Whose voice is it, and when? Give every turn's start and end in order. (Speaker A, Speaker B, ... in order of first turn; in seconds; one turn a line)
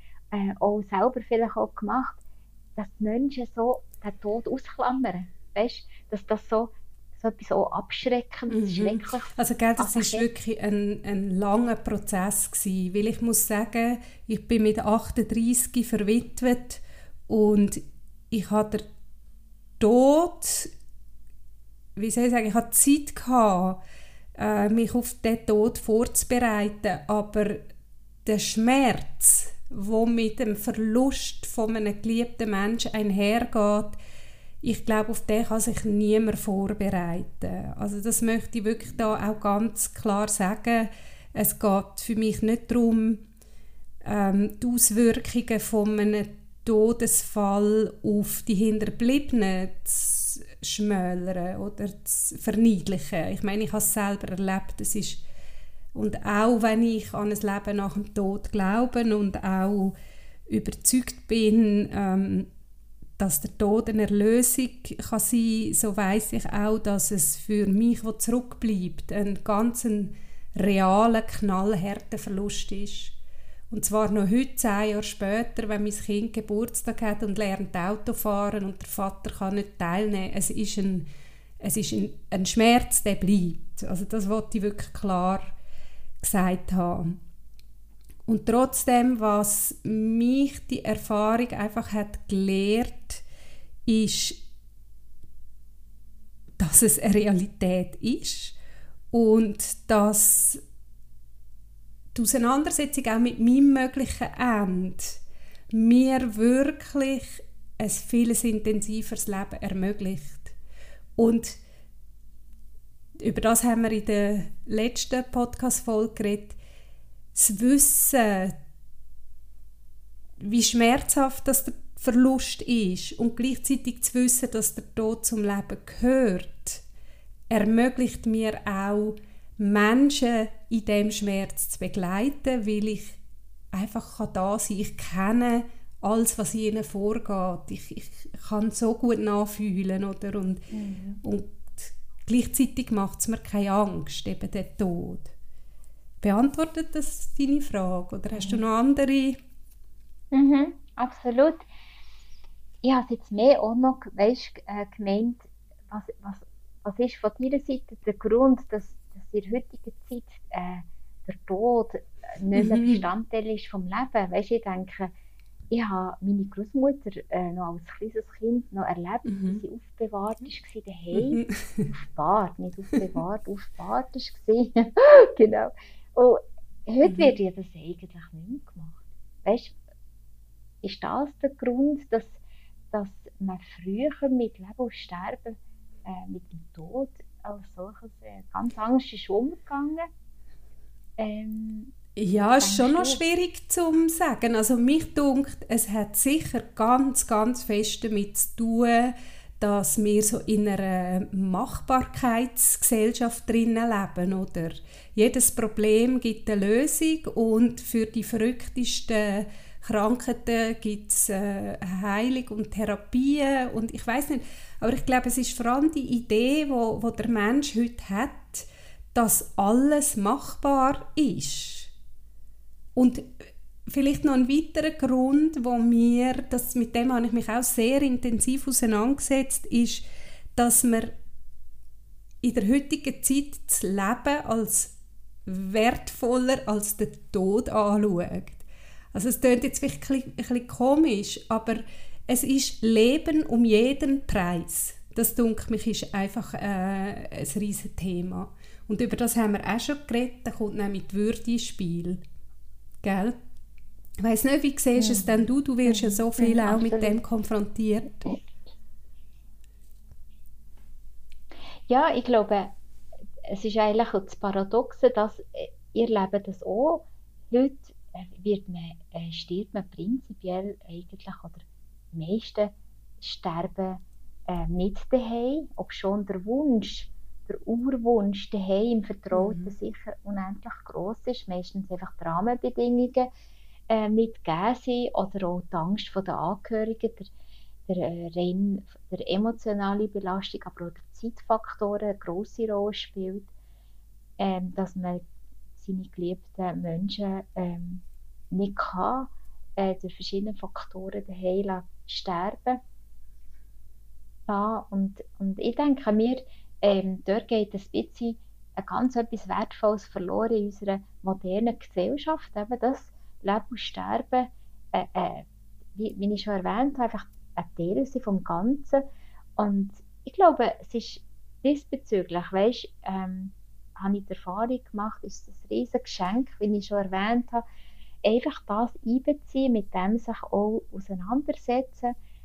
Speaker A: 0.3-2.2
Speaker A: 2.8-10.3
Speaker B: 8.5-18.9
Speaker B: 19.8-20.7
Speaker B: 21.9-23.8
Speaker B: 24.4-27.7
Speaker B: 28.2-34.0
Speaker B: 34.6-43.2
Speaker B: 44.0-55.2
Speaker B: 55.9-59.9
Speaker B: 60.5-62.5
Speaker B: 63.2-73.2
Speaker B: 73.7-81.0
Speaker B: 81.6-85.5
Speaker B: 86.2-87.2
Speaker B: 88.3-93.2
Speaker B: 93.8-94.4
Speaker B: 96.6-98.5
Speaker B: 99.1-100.6
Speaker B: 102.1-105.2
Speaker B: 105.7-110.5
Speaker B: 111.2-111.6
Speaker B: 113.2-116.6
Speaker B: 117.3-118.6
Speaker B: 120.4-126.8
Speaker B: 127.5-133.2
Speaker B: 133.7-140.7
Speaker A: 140.7-141.2
Speaker B: 141.2-145.3
Speaker B: 146.2-149.4
Speaker A: 148.3-148.6
Speaker A: 150.3-151.6
Speaker A: 152.8-165.1
Speaker B: 162.5-163.1
Speaker A: 165.7-179.8
Speaker B: 169.2-169.6
Speaker B: 171.1-171.9
Speaker B: 177.0-177.3
Speaker A: 180.8-182.4
Speaker A: 182.9-190.1
Speaker A: 191.2-191.9
Speaker B: 192.2-221.9
Speaker A: 192.6-193.2
Speaker B: 222.9-230.0
Speaker B: 230.6-231.1
Speaker B: 232.4-234.9
Speaker B: 235.4-252.2
Speaker B: 253.0-253.3
Speaker B: 254.2-258.3
Speaker A: 254.9-257.2
Speaker A: 261.9-262.8
Speaker A: 263.4-283.3
Speaker B: 279.3-279.7
Speaker A: 283.9-287.3
Speaker A: 287.9-293.5
Speaker A: 294.4-295.2
Speaker A: 295.8-302.8
Speaker A: 304.5-319.0
Speaker A: 319.6-327.6
Speaker A: 328.2-332.1